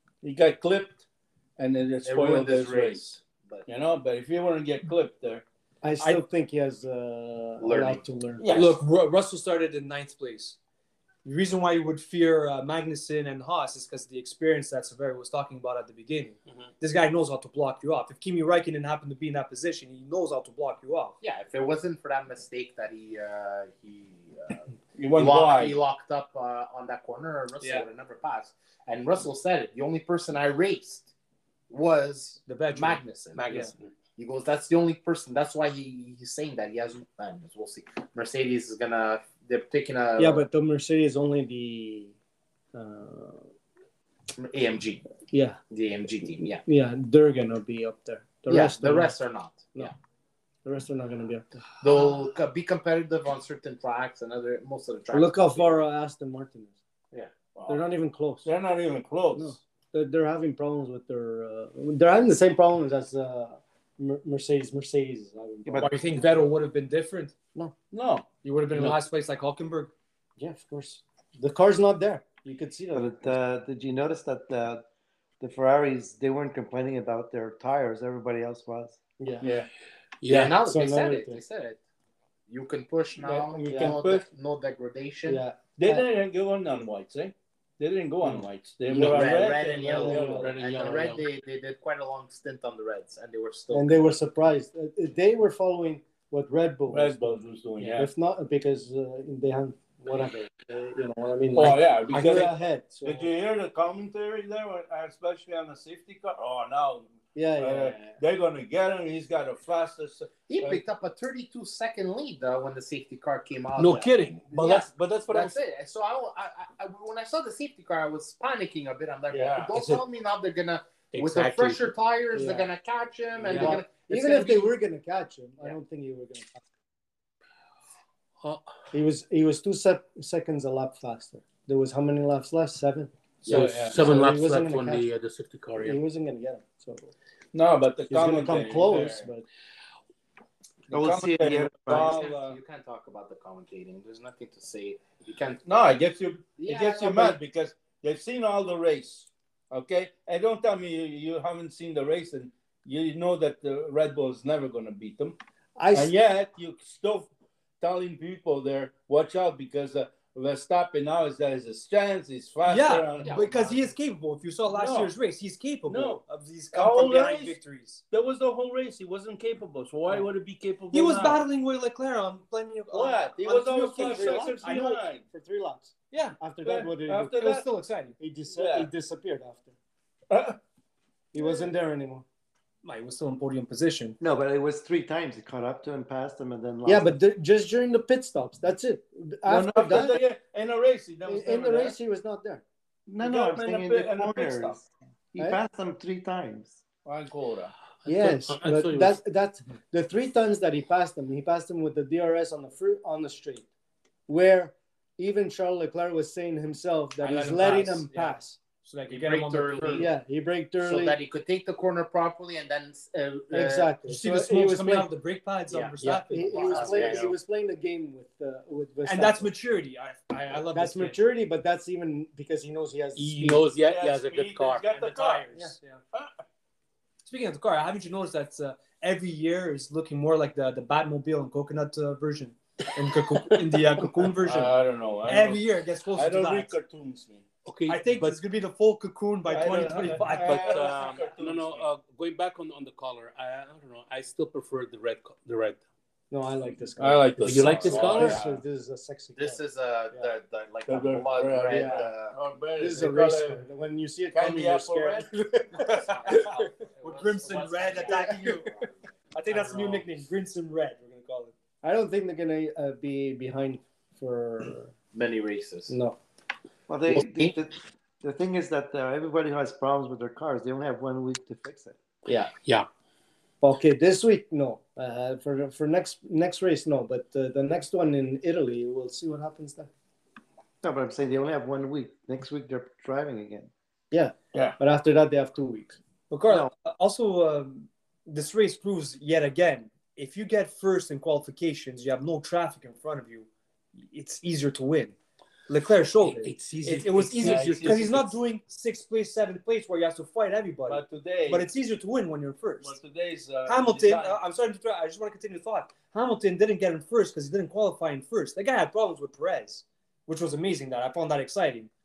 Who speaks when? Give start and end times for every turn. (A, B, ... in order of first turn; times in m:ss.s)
0:00.2-0:01.0 A
0:01.6-0:03.1 A
0:02.0-0:03.7 B
0:03.7-0:05.4 A
0:05.8-0:08.7 C
0:07.6-0:08.8 B
0:08.5-0:10.6 D
0:11.2-0:21.2 D
0:21.2-0:31.1 B
0:25.0-0:25.8 A
0:31.7-0:33.6 B
0:32.5-0:33.7 D
0:33.3-0:33.9 E
0:34.2-0:40.4 B
0:40.2-0:42.1 C
0:42.7-0:43.5 C
0:44.4-0:45.1 B
0:45.3-0:45.6 C
0:45.7-0:46.6 B
0:46.6-0:49.1 C
0:48.5-0:49.9 B
0:50.6-0:51.5 C
0:51.8-0:55.8 B
0:55.1-0:56.8 C
0:57.5-0:57.8 A
0:57.7-0:58.5 C
0:58.4-0:59.6 A
0:59.3-1:05.9 C
1:05.8-1:07.3 D
1:07.9-1:08.2 A
1:08.4-1:09.9 D
1:10.4-1:13.3 C
1:12.9-1:14.8 F
1:15.4-1:19.0 F
1:19.2-1:19.5 C
1:19.4-1:19.7 A
1:20.2-1:20.6 E
1:20.3-1:21.8 B
1:20.6-1:21.4 C
1:22.5-1:25.4 B
1:23.2-1:24.2 A
1:23.7-1:24.0 C
1:25.2-1:26.0 C
1:25.8-1:30.5 A
1:28.2-1:30.6 C
1:28.9-1:34.2 B
1:30.2-1:31.2 E
1:33.7-1:43.3 C
1:36.9-1:38.1 A
1:41.5-1:50.8 A
1:47.3-1:48.2 C
1:50.5-2:04.7 B
1:53.8-1:55.6 E
1:59.3-1:59.6 C
1:59.4-2:00.0 E
2:01.1-2:01.9 E
2:02.3-2:02.7 C
2:03.4-2:06.6 C
2:08.4-2:08.7 E
2:08.9-2:15.1 C
2:13.4-2:14.0 A
2:13.4-2:16.0 E
2:15.8-2:17.1 C
2:17.5-2:19.3 A
2:18.1-2:19.4 C
2:20.9-2:22.6 A
2:20.9-2:22.2 F
2:21.9-2:25.6 B
2:25.6-2:35.4 A
2:26.6-2:27.4 B
2:35.8-2:36.1 C
2:35.9-2:37.3 A
2:37.8-2:43.7 A
2:42.6-2:48.0 D
2:43.2-2:43.6 B
2:44.7-2:45.1 A
2:45.9-2:47.6 A
2:48.1-2:51.4 A
2:50.9-2:54.9 D
2:52.9-2:55.2 A
2:53.8-2:57.5 C
2:56.1-2:56.4 D
2:56.6-2:57.6 A
2:57.4-2:58.2 D
2:58.2-2:59.7 C
2:58.5-2:58.9 A
3:00.3-3:00.6 A
3:01.3-3:02.2 C
3:02.8-3:04.2 D
3:04.2-3:07.2 F
3:06.8-3:10.2 C
3:09.4-3:12.0 A
3:11.2-3:12.6 C
3:13.1-3:16.8 F
3:13.2-3:14.8 A
3:17.0-3:17.7 A
3:18.0-3:19.2 E
3:18.0-3:23.7 C
3:24.3-3:28.6 C
3:27.2-3:30.1 D
3:29.1-3:30.1 B
3:29.9-3:31.2 C
3:30.8-3:34.0 B
3:33.5-3:35.1 C
3:34.1-3:37.2 D
3:35.7-3:37.3 B
3:36.0-3:37.3 E
3:36.3-3:39.5 C
3:39.0-3:41.2 D
3:40.7-3:43.7 C
3:43.2-3:44.9 E
3:43.7-3:45.5 A
3:44.9-3:46.0 D
3:47.2-3:54.7 D
3:53.1-3:54.0 E
3:54.4-3:57.4 A
3:55.2-3:56.7 D
3:57.6-3:58.4 E
3:57.9-4:01.2 D
3:59.4-4:01.9 A
3:59.9-4:05.8 E
4:06.3-4:09.6 C
4:06.9-4:08.5 A
4:07.4-4:08.6 E
4:09.4-4:12.4 B
4:10.8-4:13.6 A
4:11.6-4:12.1 C
4:12.8-4:16.4 C
4:14.3-4:15.6 A
4:15.8-4:19.0 B
4:15.8-4:18.7 D
4:19.3-4:21.5 D
4:19.5-4:19.9 B
4:21.8-4:24.9 C
4:25.1-4:26.0 B
4:25.9-4:26.2 C
4:26.9-4:32.0 F
4:27.2-4:27.5 B
4:32.3-4:32.9 E
4:33.6-4:39.9 C
4:40.8-4:43.7 F
4:44.1-4:46.0 C
4:46.3-4:53.5 D
4:54.0-4:55.1 D
4:55.7-5:03.0 D
4:56.2-4:58.3 E
4:57.4-4:58.2 A
5:00.9-5:01.7 A
5:02.8-5:04.4 A
5:03.6-5:11.9 D